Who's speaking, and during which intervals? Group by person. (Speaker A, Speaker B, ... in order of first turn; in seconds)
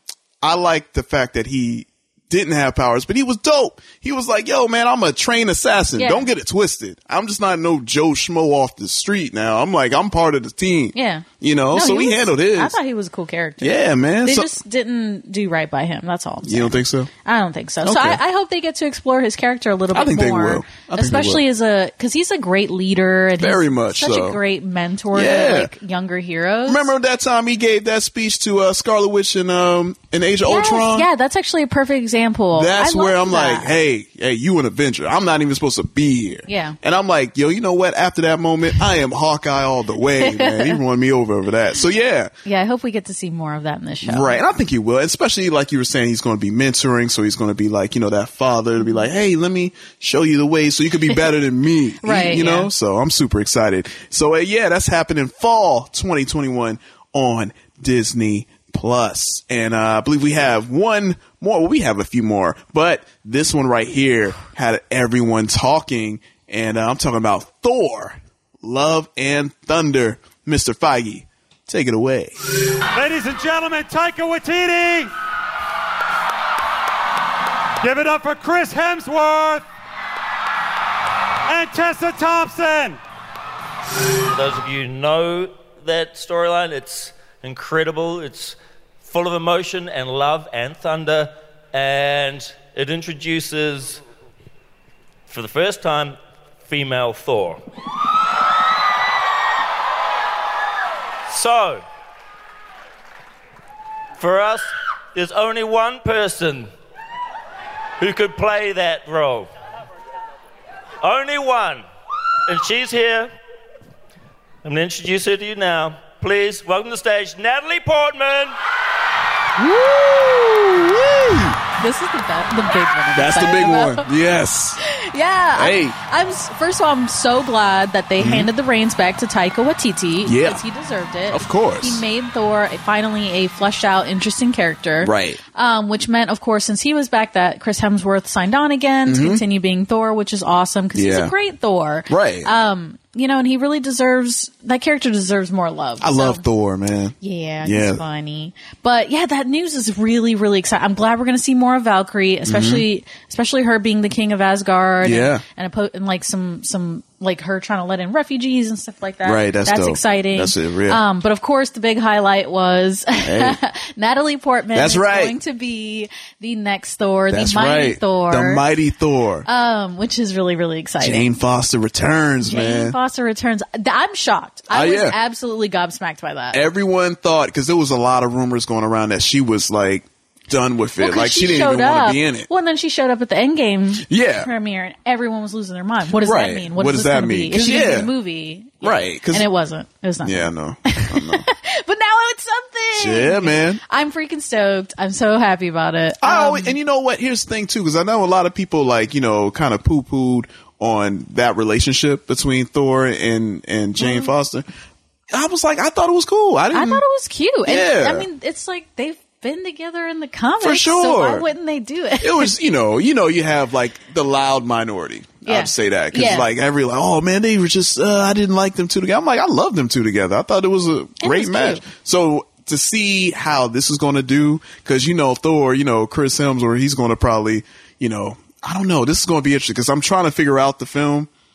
Speaker A: 0.4-12.8, 13.6-14.5, 16.4-17.1, 17.8-18.2, 19.9-21.4, 23.4-24.4, 25.1-25.7, 26.7-31.1, 32.5-42.3, 44.0-72.4, 121.0-121.6, 123.2-124.8, 125.5-126.0, 128.2-128.5, 130.2-130.6, 131.3-132.0, 135.0-135.4, 139.1-139.4, 140.9-141.3, 142.1-142.5, 146.0-148.0, 152.5-152.8, 155.0-155.4, 159.2-161.0, 163.2-163.6, 164.7-165.4, 167.3-169.5, 171.0-173.0, 174.7-175.2, 176.5-182.5, 184.1-184.5, 186.2-188.1, 188.8-189.5, 190.2-191.4, 193.0-193.8, 196.2-204.7, 205.3-207.0, 207.7-208.3, 210.6-211.5, 212.2-231.3
Speaker B: 6.0-6.3, 10.9-26.9, 30.4-33.7, 36.5-36.8, 40.2-40.8, 42.5-44.4, 52.0-52.7, 119.6-120.9, 121.8-124.0, 124.8-146.4, 147.2-168.6, 169.5-171.3, 172.5-176.6, 181.0-196.8, 204.0-204.3, 206.7-212.5, 215.5-216.5, 221.2-221.8
Speaker C: 72.9-75.1, 77.8-79.7, 81.5-83.0
Speaker D: 84.2-94.0, 95.3-97.6, 101.3-101.8, 104.2-106.7, 108.0-109.5, 111.0-111.8, 112.5-113.3, 114.6-118.5